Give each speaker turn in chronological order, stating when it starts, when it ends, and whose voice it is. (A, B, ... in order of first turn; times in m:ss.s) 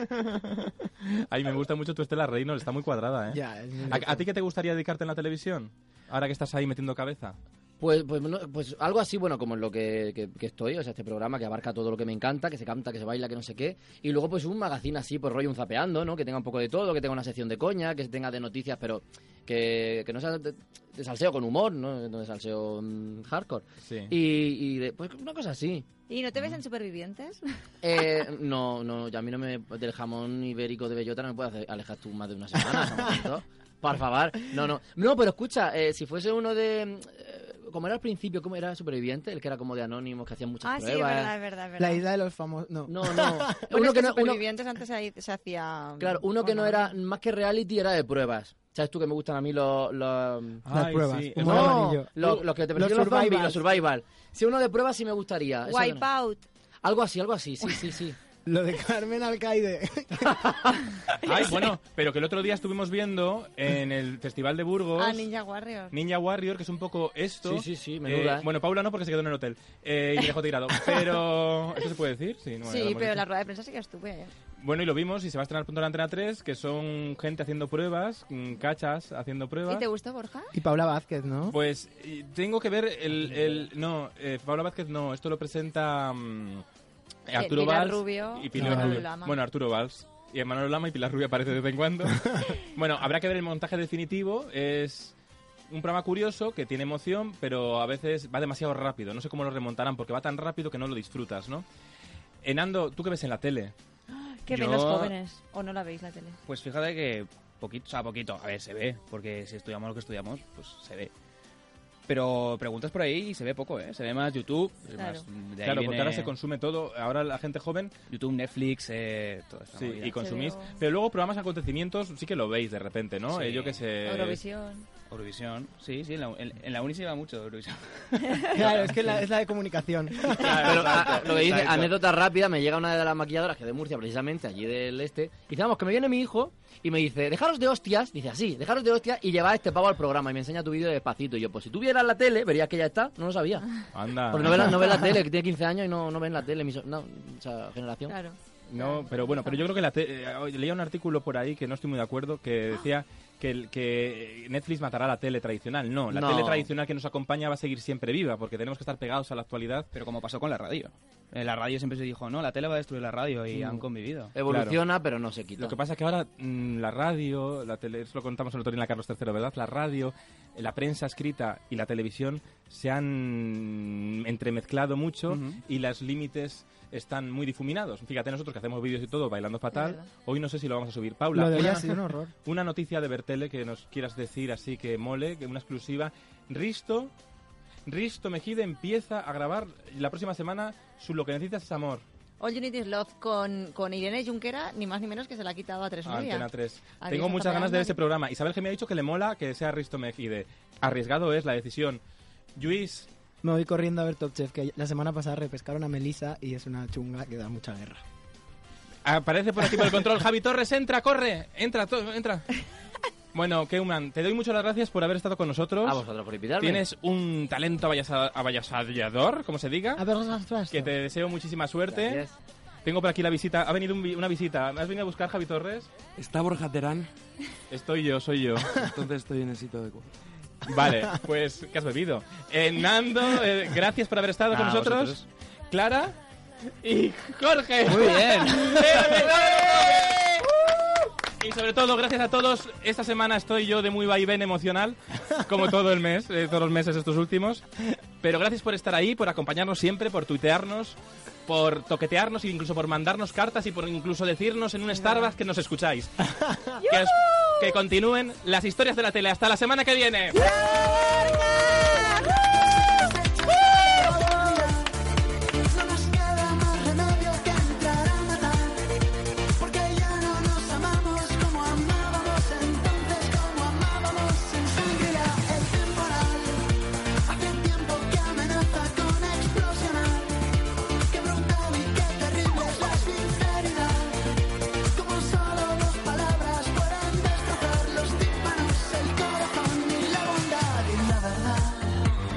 0:01.0-0:07.4 A
0:03.3-0:04.2 B
0:07.8-0:25.9 C
0:23.8-0:24.1 A
0:26.1-0:27.4 D
0:27.8-0:41.3 C
0:40.6-0:42.0 D
0:41.8-0:43.7 B
0:42.8-0:44.4 C
0:43.7-0:47.0 D
0:46.0-0:50.6 C
0:50.6-0:52.0 A
0:50.7-0:53.6 B
0:51.4-0:56.0 C
0:55.6-0:56.4 D
0:56.8-0:58.2 C
0:58.4-1:00.7 B
1:01.2-1:05.3 A
1:05.0-1:05.9 D
1:05.9-1:13.2 A
1:07.4-1:08.5 C
1:12.6-1:14.3 D
1:14.6-1:19.8 A
1:19.7-1:20.5 D
1:20.5-1:21.6 B
1:21.5-1:26.6 A
1:27.3-1:35.1 A
1:27.3-1:29.4 D
1:28.6-1:29.0 B
1:35.7-1:41.6 A
1:42.4-1:43.7 A
1:44.1-1:46.4 D
1:44.5-1:45.1 E
1:46.4-1:51.1 E
1:52.1-1:56.3 E
1:54.9-1:55.2 D
1:55.6-1:57.9 A
1:58.1-2:00.2 E
1:59.7-2:04.4 A
2:00.2-2:00.8 D
2:03.3-2:03.8 E
2:04.0-2:04.9 D
2:05.1-2:08.4 E
2:08.5-2:10.8 B
2:10.3-2:11.9 A
2:10.6-2:23.6 C
2:23.9-2:24.8 A
2:24.3-2:28.2 C
2:28.1-2:29.6 D
2:28.7-2:39.9 A
2:36.1-2:36.7 C
2:39.9-2:44.3 E
2:43.5-2:45.8 C
2:44.5-2:44.8 A
2:45.6-3:07.1 A
2:55.3-2:55.6 E
2:59.7-3:00.0 D
3:01.3-3:02.3 B
3:07.8-3:12.0 A
3:12.4-3:16.5 D
3:16.0-3:22.0 A
3:17.0-3:18.0 D
3:22.6-3:23.1 A
3:23.4-3:28.0 B
3:29.0-3:32.5 A
3:33.3-3:36.0 A
3:35.8-3:36.8 C
3:36.6-3:40.0 A
3:40.0-3:40.9 B
3:40.7-3:42.2 A
3:41.9-3:42.3 C
3:42.8-3:45.9 A
3:46.2-3:47.0 F
3:47.7-3:48.8 A
3:48.8-3:50.0 F
3:50.6-3:56.2 A
3:54.5-3:55.2 E
3:56.8-4:00.5 A
3:57.8-3:59.3 E
4:01.4-4:20.4 A
4:15.0-4:15.3 D
4:22.7-4:24.9 G
4:25.7-4:28.8 G
4:29.6-4:36.7 G
4:37.3-4:40.3 G
4:41.1-4:44.2 G
4:45.0-4:52.0 G